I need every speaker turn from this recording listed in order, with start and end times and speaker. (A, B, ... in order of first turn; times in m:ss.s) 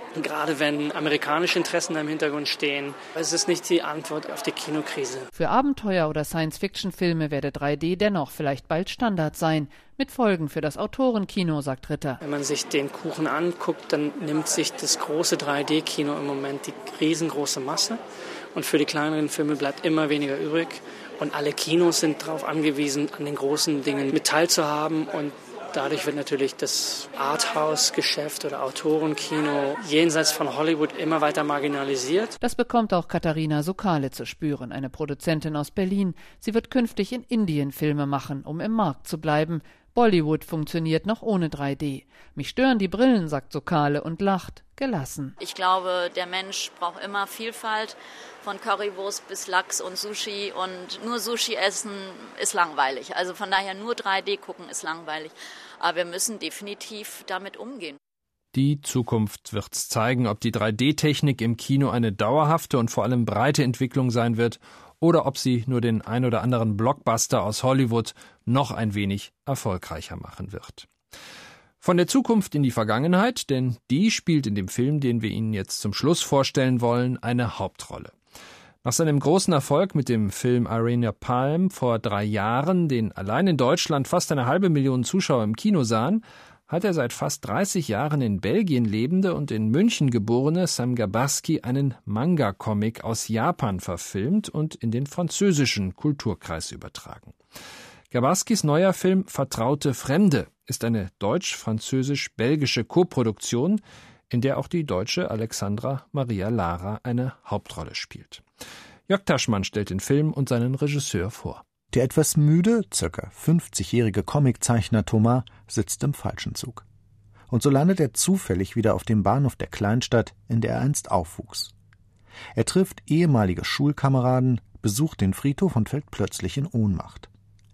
0:00.2-0:05.3 A
0:05.3-0:12.2 B
0:12.2-0:18.0 A
0:18.6-0:32.4 A
0:32.4-0:45.4 B
0:45.4-0:58.0 C
0:58.5-1:10.9 D
1:11.8-1:18.1 D
1:18.8-1:37.3 D
1:38.1-1:48.4 D
1:49.1-1:51.6 D
1:51.9-1:56.8 E
1:57.5-2:01.7 E
2:02.6-2:07.3 E